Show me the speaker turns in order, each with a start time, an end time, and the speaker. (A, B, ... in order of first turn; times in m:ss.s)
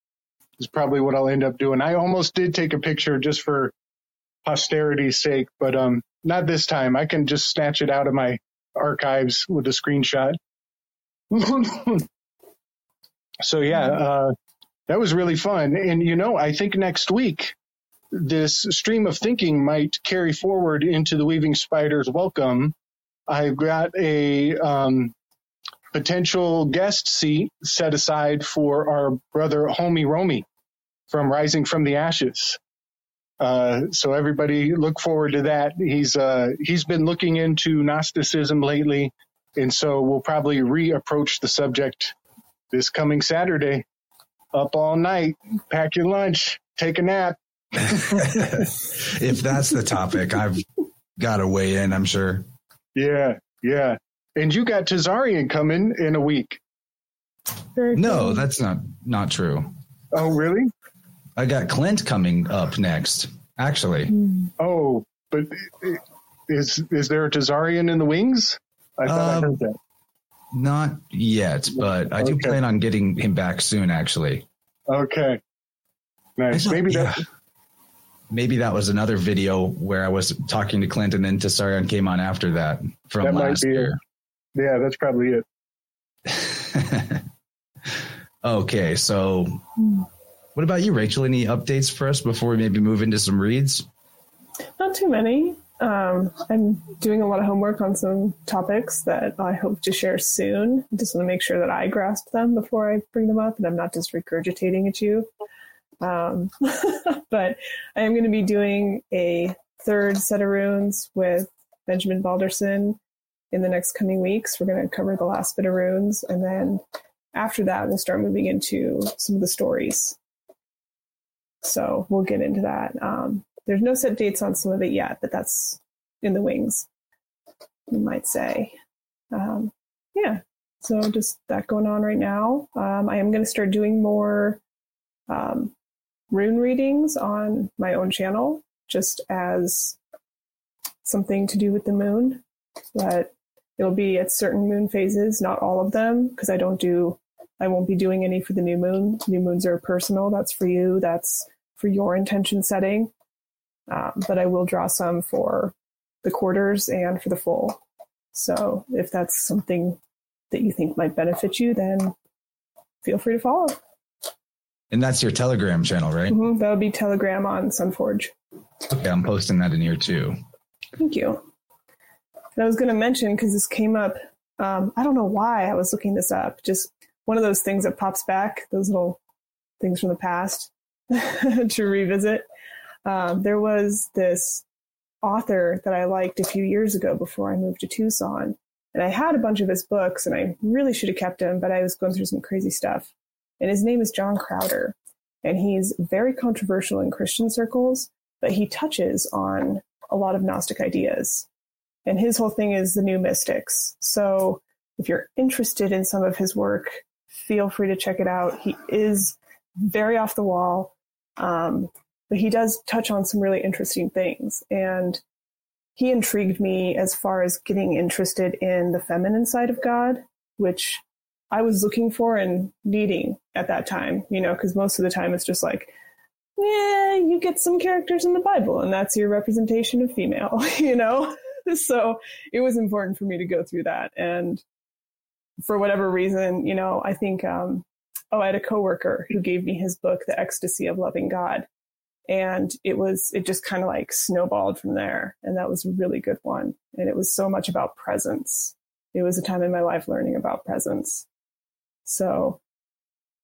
0:00.6-0:03.7 A
0:04.4-0:10.4 A
0:11.3-0:12.0 A
0:13.4-0:14.3 A
0:14.9-0:17.5 A
0:18.1-0:22.7 A
0:23.3-0:25.1 A
0:25.9-0:30.4 A
0:31.1-0:32.6 A
0:33.4-0:42.1 A
0:42.7-0:43.8 A
0:44.5-0:48.4 A
0:48.1-0:50.7 B
0:51.2-0:52.5 B
0:52.9-0:56.6 A
0:57.8-0:58.4 C
0:57.9-0:59.7 B
1:00.1-1:00.7 A
1:01.4-1:04.1 B
1:04.6-1:09.7 A
1:09.0-1:09.6 B
1:10.5-1:14.4 B
1:12.2-1:12.6 A
1:14.9-1:15.4 A
1:16.4-1:17.2 A
1:16.5-1:17.2 B
1:18.3-1:24.0 B
1:23.2-1:23.9 A
1:24.5-1:25.4 A
1:26.3-1:27.2 B
1:28.4-1:29.6 B
1:30.5-1:33.8 B
1:34.8-1:45.3 C
1:46.0-1:53.0 C
1:53.5-1:56.8 C
1:57.3-2:00.2 C
2:01.6-2:06.9 C
2:07.9-2:08.7 C
2:09.3-2:14.6 C
2:15.3-2:15.7 C
2:16.3-2:20.0 C
2:21.0-2:22.4 C
2:22.9-2:33.1 C
2:33.9-2:37.8 C
2:38.3-2:40.0 C
2:40.5-2:42.1 C
2:43.0-2:43.8 C
2:44.9-2:46.4 B
2:46.3-2:48.3 C
2:48.9-2:50.4 B
2:51.0-2:51.4 C
2:52.6-2:59.2 C
2:59.8-3:02.4 C
3:03.0-3:04.6 C
3:05.2-3:21.5 C
3:22.0-3:35.2 C
3:36.0-3:45.9 C
3:46.6-3:54.6 C
3:55.6-4:01.7 C
4:02.3-4:11.2 C
4:12.0-4:12.6 C